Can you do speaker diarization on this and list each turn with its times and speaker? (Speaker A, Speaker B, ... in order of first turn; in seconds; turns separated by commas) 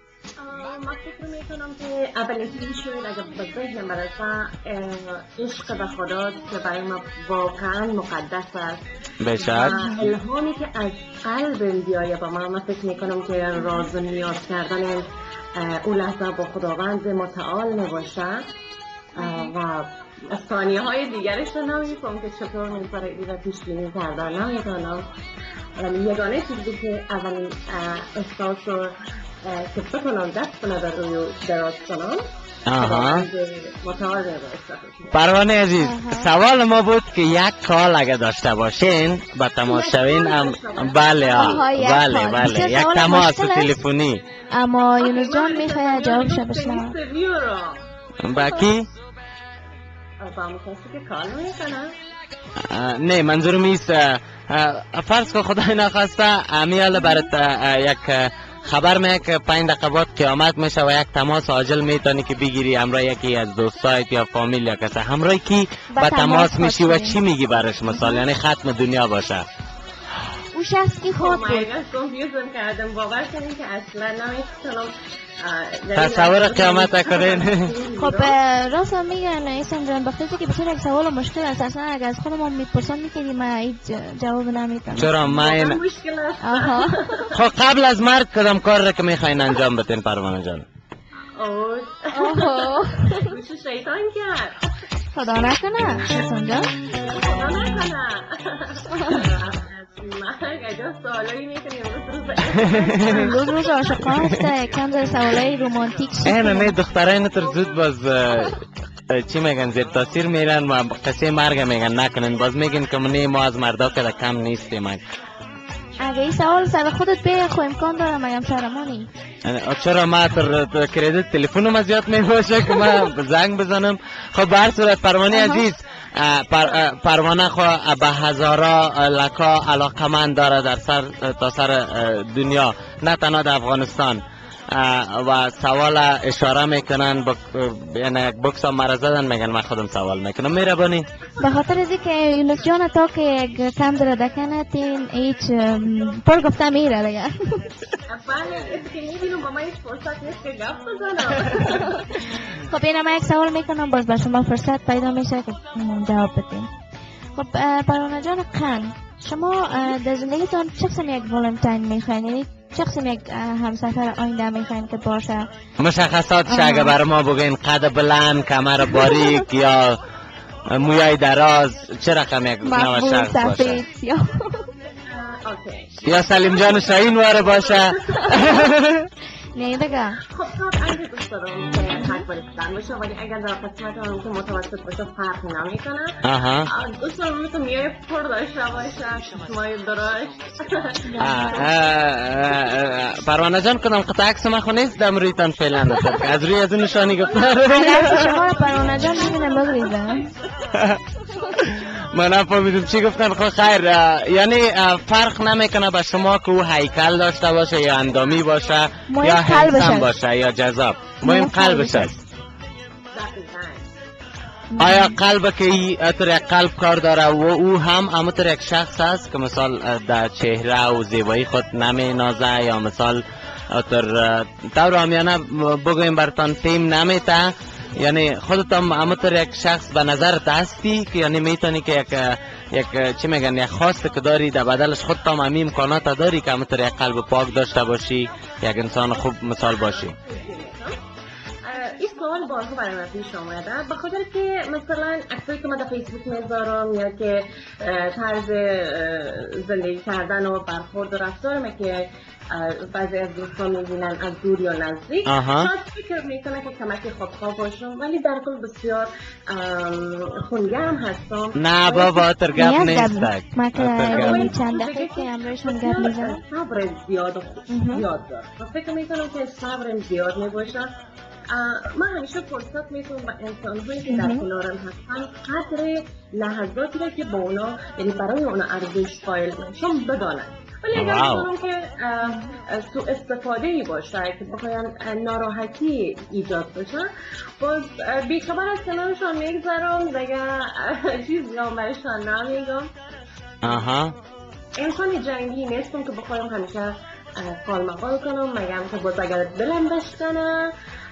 Speaker A: 0.4-8.8, Speaker B: 9.2-10.1, Speaker A: 9.4-18.5, Speaker C: 9.6-10.1, Speaker C: 19.1-19.5, Speaker A: 19.2-25.1, Speaker A: 25.8-32.2, Speaker B: 32.7-33.3, Speaker A: 32.8-35.1, Speaker B: 35.1-44.2, Speaker C: 35.8-36.3, Speaker A: 39.6-41.6, Speaker C: 41.3-43.8, Speaker C: 44.5-46.9, Speaker A: 45.0-47.8, Speaker B: 48.2-48.9, Speaker A: 50.2-51.9, Speaker B: 52.7-69.4, Speaker C: 65.9-67.2, Speaker C: 67.9-68.2, Speaker C: 70.5-71.7, Speaker A: 71.1-78.3, Speaker B: 76.0-77.7, Speaker C: 78.0-85.2, Speaker B: 85.0-85.8, Speaker A: 85.2-87.4, Speaker C: 86.4-87.2, Speaker B: 87.3-90.6, Speaker A: 91.3-94.7, Speaker C: 92.1-93.3, Speaker C: 95.1-96.7, Speaker A: 97.0-104.0, Speaker B: 103.0-103.3, Speaker C: 103.1-106.7, Speaker B: 106.2-108.6, Speaker B: 109.1-115.0, Speaker C: 116.0-119.1, Speaker B: 119.4-141.1, Speaker C: 125.3-125.6, Speaker C: 141.4-147.7, Speaker A: 141.4-141.7, Speaker A: 148.1-152.0, Speaker C: 151.7-156.7, Speaker C: 157.3-165.4, Speaker B: 165.8-170.0, Speaker C: 166.5-166.9, Speaker C: 168.9-169.4, Speaker B: 170.7-173.8, Speaker C: 172.6-174.7, Speaker A: 175.1-178.7, Speaker B: 176.1-179.1, Speaker C: 178.2-178.7, Speaker C: 179.5-180.2, Speaker A: 180.2-191.6, Speaker B: 186.2-186.7, Speaker C: 191.1-191.7, Speaker B: 191.2-198.2, Speaker A: 196.9-200.7, Speaker C: 197.7-200.3, Speaker B: 200.7-201.0, Speaker B: 201.6-212.1, Speaker C: 209.1-210.1, Speaker C: 211.2-212.2, Speaker A: 213.1-213.8, Speaker C: 214.7-215.2, Speaker B: 214.8-240.2, Speaker A: 239.1-241.0, Speaker A: 241.6-262.3, Speaker B: 255.2-255.7, Speaker B: 261.6-264.5, Speaker C: 262.5-266.4, Speaker A: 264.1-270.9, Speaker C: 267.7-268.1, Speaker A: 271.5-287.1, Speaker C: 274.1-274.4, Speaker B: 280.9-281.5, Speaker C: 282.2-282.5, Speaker A: 287.6-292.9, Speaker B: 293.6-294.1, Speaker A: 294.8-300.7